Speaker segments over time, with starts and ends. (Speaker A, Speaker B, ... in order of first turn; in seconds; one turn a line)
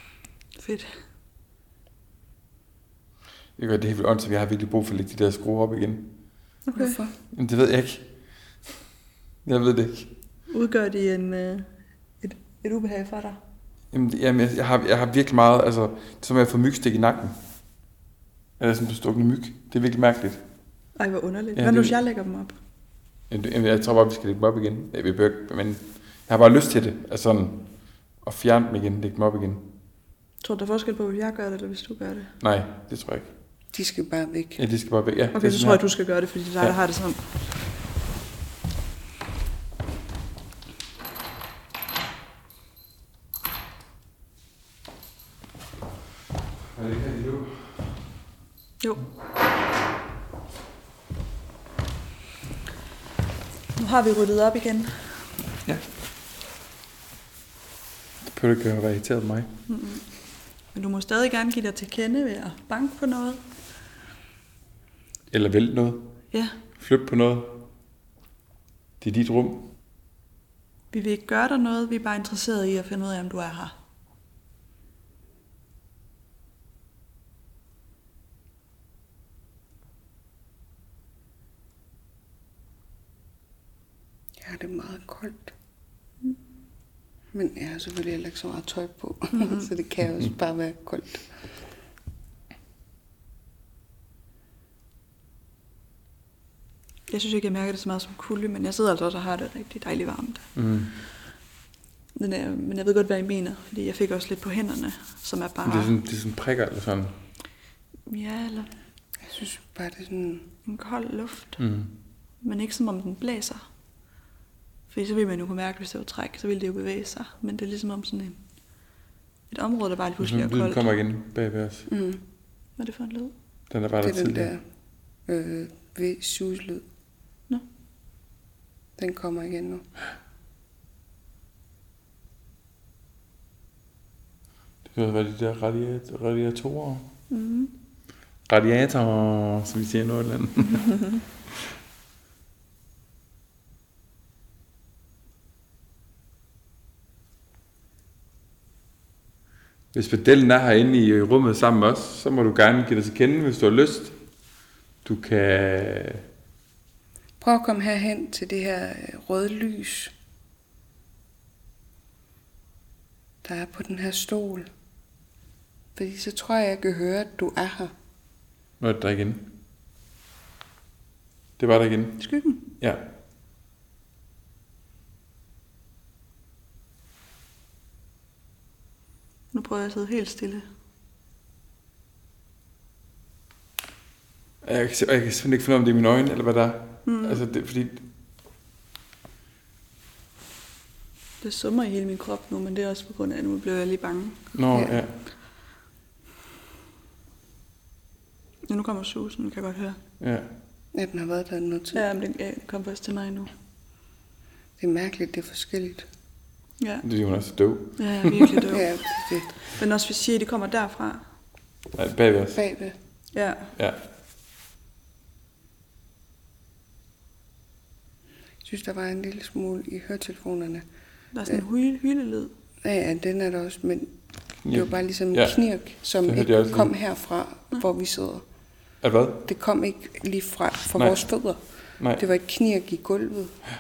Speaker A: 0.6-1.0
Speaker B: 3.6-6.2
Speaker C: 6.7-7.1
Speaker A: 6.7-7.0
Speaker B: 7.3-8.1
Speaker B: 9.4-10.1
Speaker A: 10.5-13.4
Speaker B: 13.9-17.4
Speaker B: 18.6-20.4
Speaker A: 20.9-22.6
Speaker B: 21.6-22.0
Speaker B: 23.3-29.7
Speaker A: 30.4-32.3
Speaker B: 32.4-33.3
Speaker C: 33.7-34.6
Speaker B: 34.6-36.8
Speaker A: 35.3-37.3
Speaker B: 46.7-47.9
Speaker A: 53.8-55.2
Speaker B: 58.2-59.5
Speaker A: 59.7-60.1
Speaker A: 60.7-63.4
Speaker B: 65.3-66.2
Speaker A: 66.3-66.6
Speaker B: 66.8-67.7
Speaker B: 69.0-69.7
Speaker A: 70.9-73.7
Speaker C: 84.4-85.5
Speaker C: 87.3-91.3
Speaker A: 89.3-89.7
Speaker A: 97.1-100.5
Speaker B: 100.5-100.9
Speaker A: 102.2-105.9
Speaker B: 105.7-107.2
Speaker A: 108.1-108.7
Speaker C: 109.2-110.5
Speaker A: 110.7-111.6
Speaker B: 111.6-111.9
Speaker A: 112.4-113.7
Speaker A: 114.9-118.4
Speaker A: 119.5-120.8
Speaker B: 120.2-121.9
Speaker C: 121.9-122.2
Speaker A: 122.8-123.3
Speaker B: 123.7-124.5
Speaker C: 124.0-124.6
Speaker C: 125.3-126.8
Speaker C: 129.0-129.8
Speaker B: 134.8-137.1
Speaker A: 137.3-137.7
Speaker B: 138.5-141.6
Speaker B: 149.9-154.1
Speaker B: 155.0-156.2
Speaker C: 157.4-160.1
Speaker C: 163.4-164.7
Speaker C: 166.0-167.9
Speaker B: 168.8-169.5
Speaker B: 171.6-173.0
Speaker A: 172.2-172.6
Speaker A: 179.5-180.7
Speaker B: 184.6-188.1
Speaker A: 187.1-187.4
Speaker A: 191.4-194.4
Speaker B: 194.5-195.1
Speaker C: 194.7-195.0
Speaker A: 198.7-200.0
Speaker B: 200.2-200.5
Speaker C: 200.9-202.0
Speaker A: 201.9-203.5
Speaker C: 204.8-206.1
Speaker B: 207.0-208.6
Speaker A: 208.0-208.9
Speaker C: 208.7-209.5
Speaker A: 209.6-211.2
Speaker B: 211.9-212.6
Speaker C: 212.6-212.9
Speaker A: 213.3-213.7
Speaker C: 218.6-220.8
Speaker A: 221.3-222.5
Speaker C: 222.8-224.1
Speaker B: 224.6-226.9
Speaker C: 224.7-228.4
Speaker B: 229.0-229.4
Speaker C: 229.4-231.6
Speaker B: 232.0-232.2
Speaker C: 232.1-233.6